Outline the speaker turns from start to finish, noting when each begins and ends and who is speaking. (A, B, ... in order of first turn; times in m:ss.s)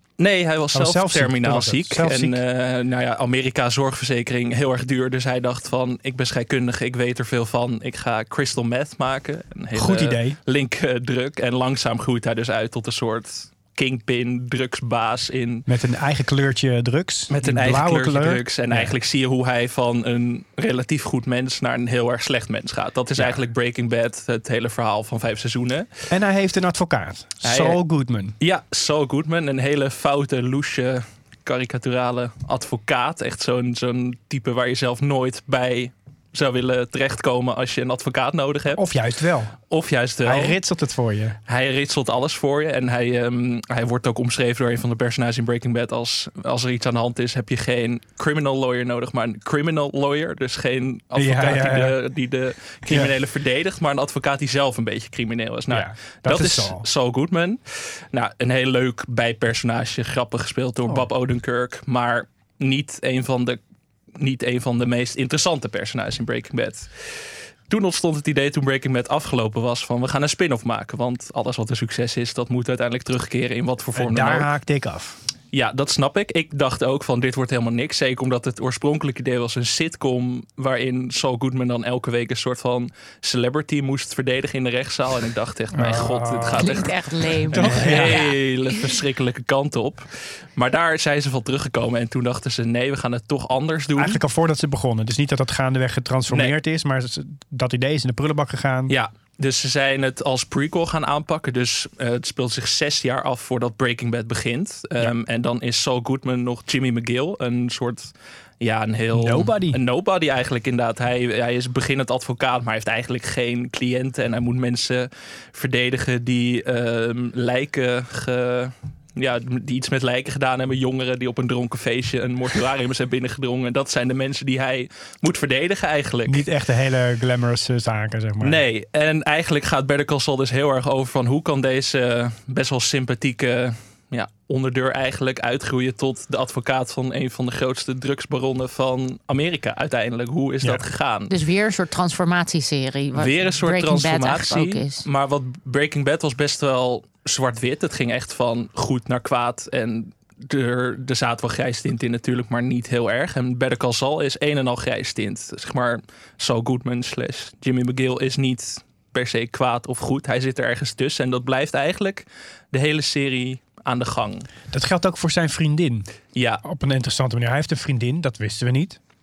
0:00.2-0:15.6 A
0:00.7-0:02.4 B
0:09.7-0:10.4 B
0:15.6-0:19.0 B
0:17.3-0:25.9 A
0:26.1-0:28.3 B
0:27.4-0:27.8 A
0:28.4-0:38.8 A
0:38.7-0:39.6 B
0:39.7-0:40.6 A
0:40.2-0:41.4 B
0:41.5-1:03.6 A
0:51.2-0:51.9 B
0:55.7-0:56.8 B
1:04.2-1:14.5 A
1:14.0-1:15.2 B
1:15.5-1:34.2 A
1:25.7-1:26.7 B
1:26.6-1:28.9 C
1:27.5-1:28.2 B
1:34.0-1:38.9 B
1:38.9-2:06.4 A
1:49.1-1:49.8 B
2:06.3-2:08.6 B
2:08.4-2:21.3 A
2:21.3-2:25.0 C
2:23.1-2:44.5 A
2:44.7-2:46.1 B
2:46.3-2:46.6 A
2:46.6-2:49.0 B